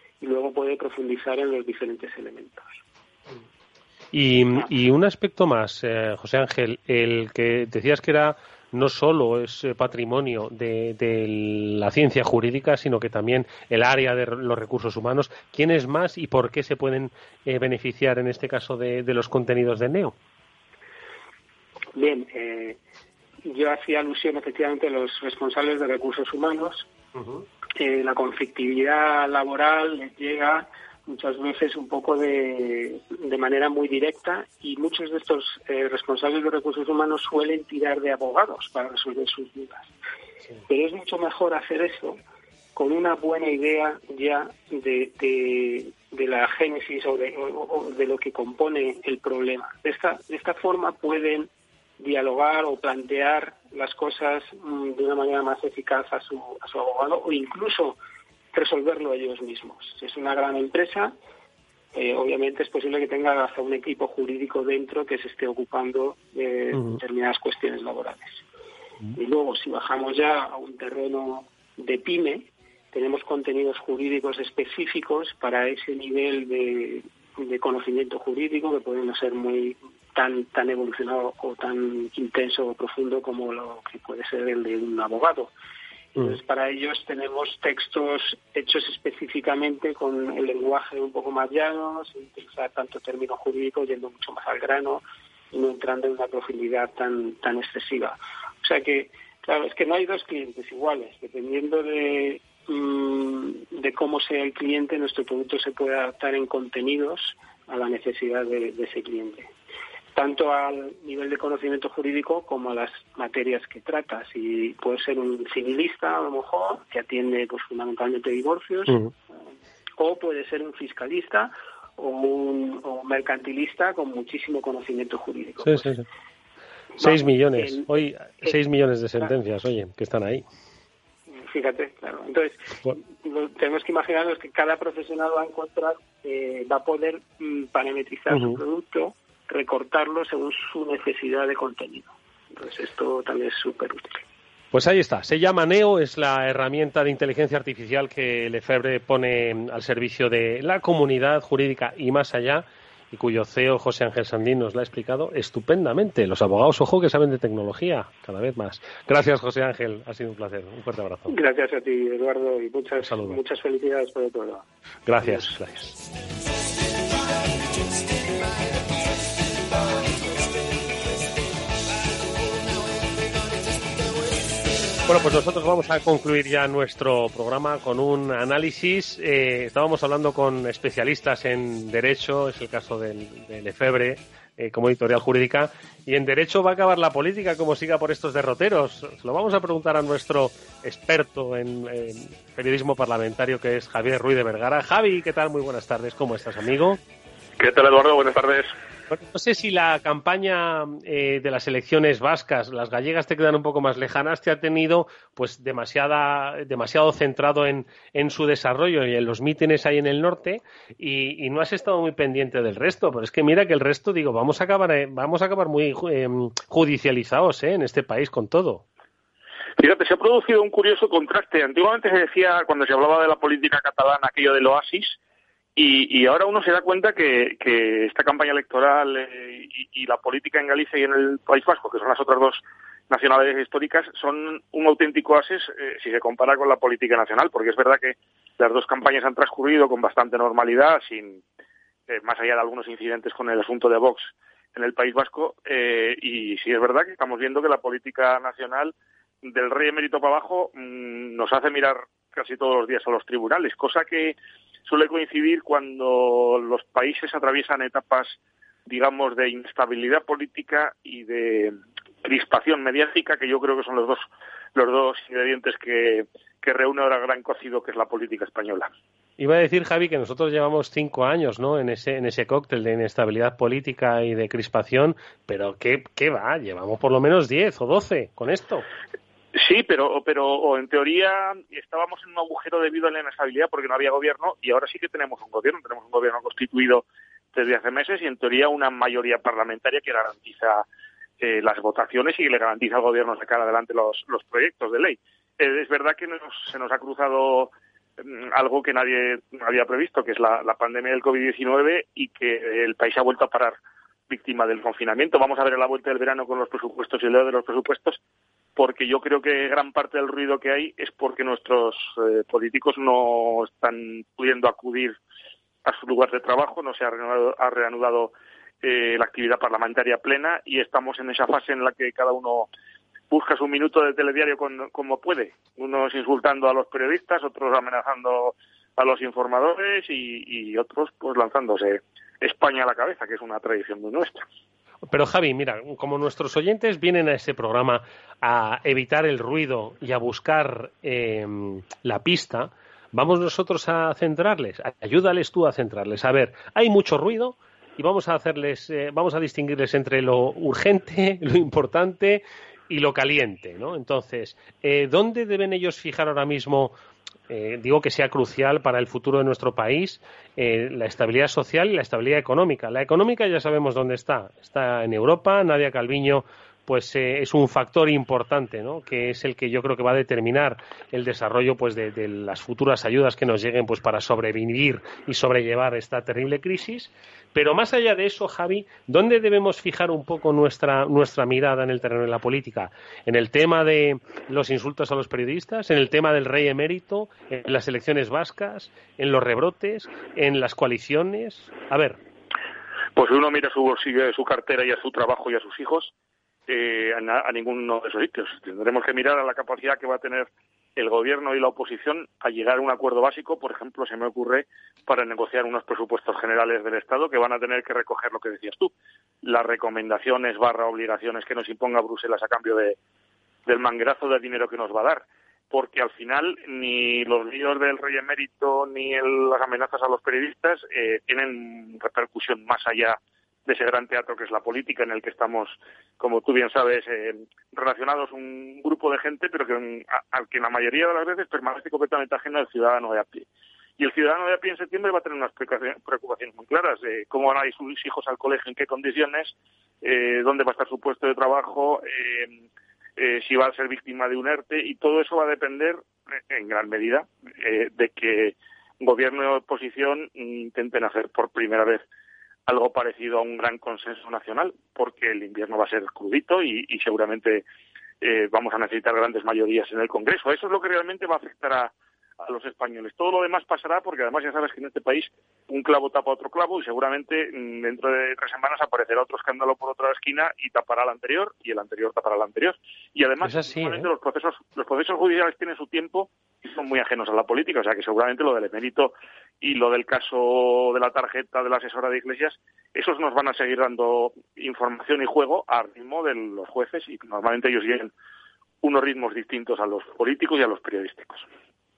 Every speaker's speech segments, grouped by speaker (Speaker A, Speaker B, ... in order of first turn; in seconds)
Speaker A: 0.2-2.8, 21.9-22.8, 23.4-26.9, 27.8-39.9, 40.7-42.2, 42.8-58.0, 58.5-61.1, 61.9-68.4, 69.1-85.5, 86.2-109.5, 110.1-119.0, 120.0-126.0, 127.0-128.6, 131.3-144.2, 161.3-164.6, 165.2-165.5
Speaker B: 4.1-20.1, 27.2-27.4, 66.7-67.0, 125.6-126.0, 127.0-130.4, 138.3-138.6, 144.7-161.3, 163.0-163.4, 165.1-165.9, 175.1-197.0, 199.1-218.8, 269.4-278.9, 335.1-356.9, 357.5-392.2, 473.4-474.1
Speaker C: 197.6-198.7, 219.8-225.2, 225.8-241.4, 242.1-268.9, 279.5-290.8, 291.4-303.8, 304.3-308.2, 308.8-315.2, 315.8-322.7, 323.3-334.4, 393.1-396.1, 396.7-408.9, 409.4-413.0, 413.6-433.4, 434.0-442.6, 443.2-452.0, 452.7-457.6, 458.2-488.1, 488.8-491.4